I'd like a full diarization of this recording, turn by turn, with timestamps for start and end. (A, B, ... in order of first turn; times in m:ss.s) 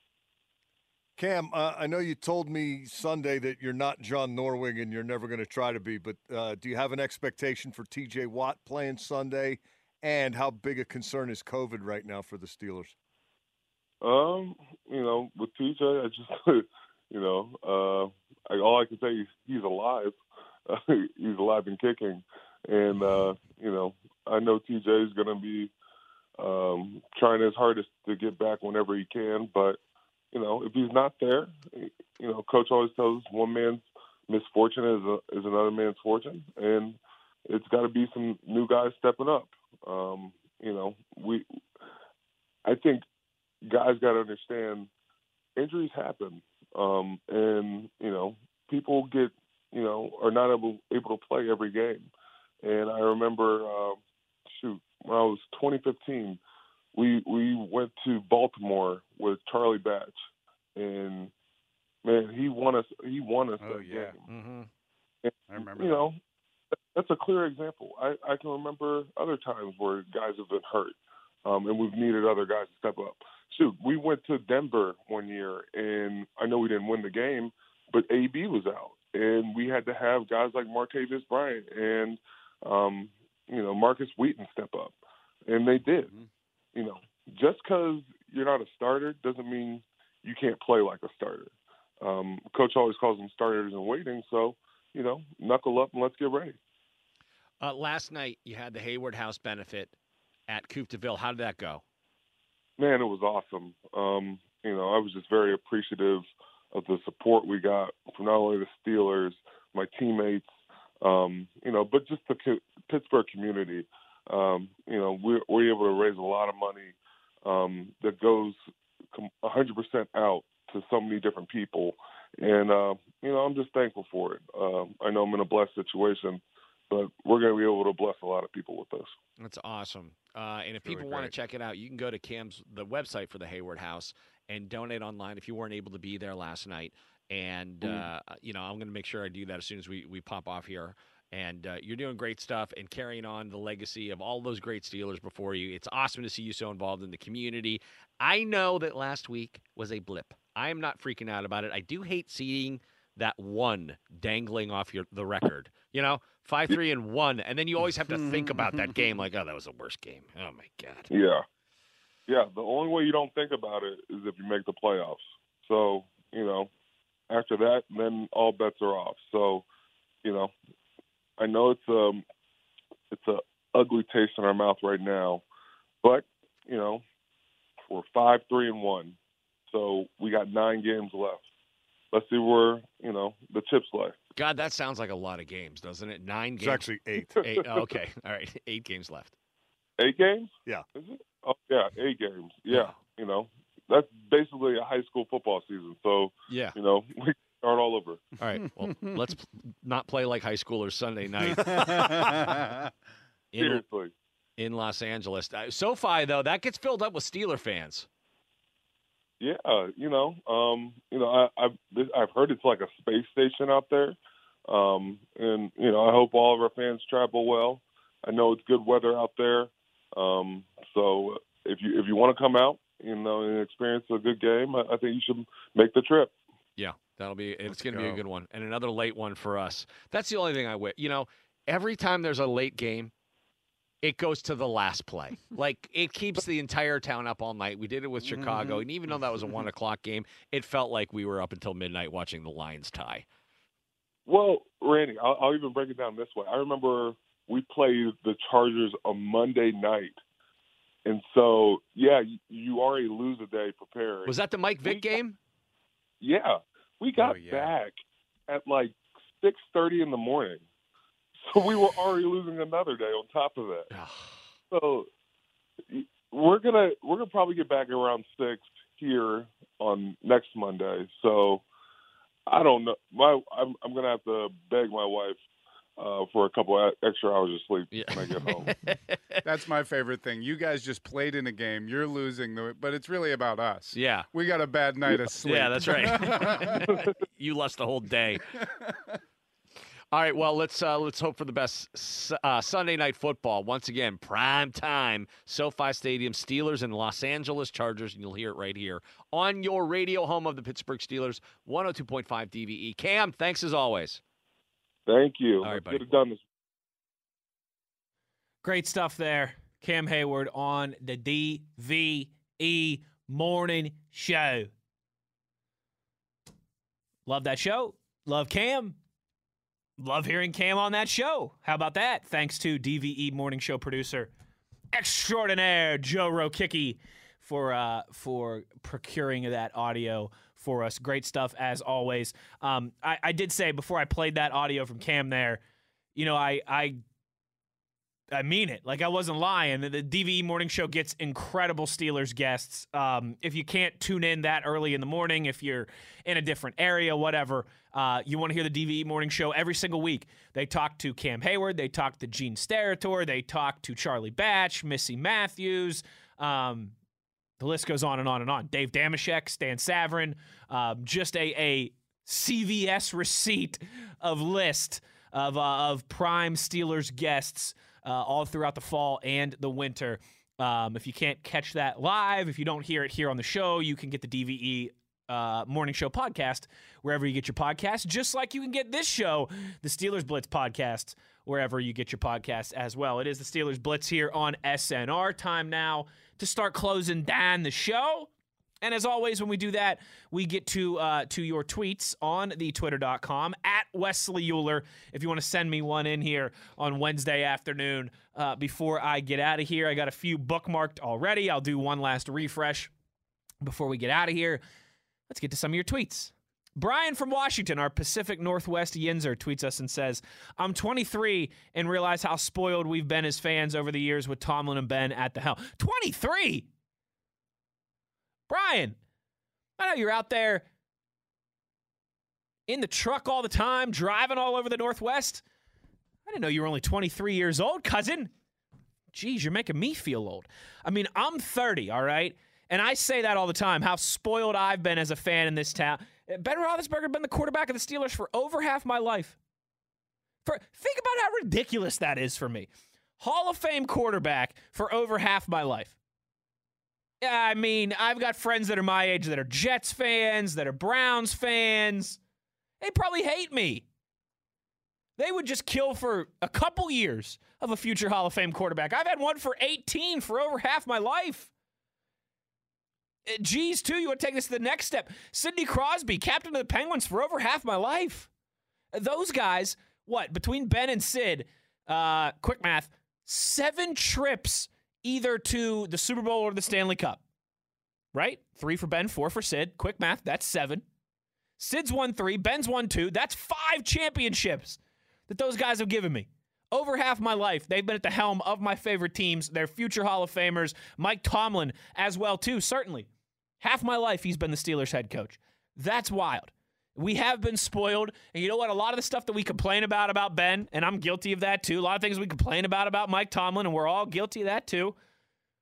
0:01.2-0:12.9 A
0:14.0-0:25.7 B
0:26.4-0:29.8 B
0:30.3-0:41.4 B
0:42.6-0:43.0 B
0:43.6-0:44.9 B
0:45.6-0:52.1 B
0:52.6-0:54.0 B
0:54.5-0:56.4 B
0:56.9-1:00.2 B
1:00.8-1:01.3 B
1:02.0-1:04.2 B
1:03.6-1:04.2 C
1:04.3-1:04.7 D
1:05.2-1:06.2 B
1:05.5-1:06.0 C
1:06.9-1:24.9 B
1:25.5-1:26.1 B
1:26.7-1:36.6 B
1:37.6-1:39.9 D
1:40.5-1:41.8 D
1:42.8-1:50.5 B
1:51.0-1:58.6 B
1:59.1-2:09.1 B
2:09.4-2:41.1 D
2:10.8-2:11.3 C
2:41.1-2:41.4 B
2:42.3-2:46.7 B
2:47.3-2:49.6 B
2:50.2-2:50.5 B
2:51.4-2:52.2 B
2:53.1-2:55.4 B
2:56.0-2:57.0 B
2:57.9-2:59.2 B
2:59.7-3:01.4 B
3:02.1-3:04.1 B
3:04.4-3:06.9 D
3:06.6-3:07.4 A
3:07.4-3:09.3 D
3:10.0-3:18.2 B
3:16.5-3:16.8 D
3:18.4-3:22.6 D
3:21.6-3:22.9 C
3:23.5-3:23.8 D
3:23.6-3:24.1 B
3:24.6-3:28.1 D
3:29.4-3:46.3 B
3:46.8-3:53.1 D
3:47.7-3:48.2 C
3:54.0-4:03.2 D
4:04.2-4:10.2 B
4:11.0-4:15.2 B
4:14.2-4:15.4 D
4:16.2-4:17.9 B
4:17.2-4:17.7 C
4:18.5-4:20.6 B
4:21.4-4:23.9 B
4:23.9-4:24.4 D
4:24.7-4:25.1 B
4:25.9-4:31.6 B
4:32.5-4:35.4 B
4:36.0-4:38.7 B
4:37.9-4:39.4 D
4:39.4-4:47.0 C
4:43.9-4:44.3 D
4:45.2-4:48.4 D
4:50.1-5:04.2 D
5:05.1-5:06.4 B
5:05.6-5:06.0 D
5:08.6-5:14.7 E
5:17.2-5:19.0 E
5:20.0-5:24.3 E
5:24.9-5:35.6 E
5:36.1-5:37.0 E
5:38.3-5:56.9 E
5:57.6-6:28.3 E
6:28.8-6:42.9 E
6:43.6-6:44.6 E
6:45.3-6:56.7 E
6:58.5-6:59.0 E
6:59.8-7:00.6 E
7:02.7-7:05.4 E
7:06.2-7:08.3 E
7:09.1-7:19.4 E
7:20.4-7:26.0 E
7:27.2-7:32.2 E
7:32.8-7:33.8 E
7:35.2-7:41.5 E
7:43.3-7:48.3 E
7:48.9-7:57.2 E
7:58.1-8:00.8 E
8:01.6-8:13.1 E
8:13.6-8:24.9 E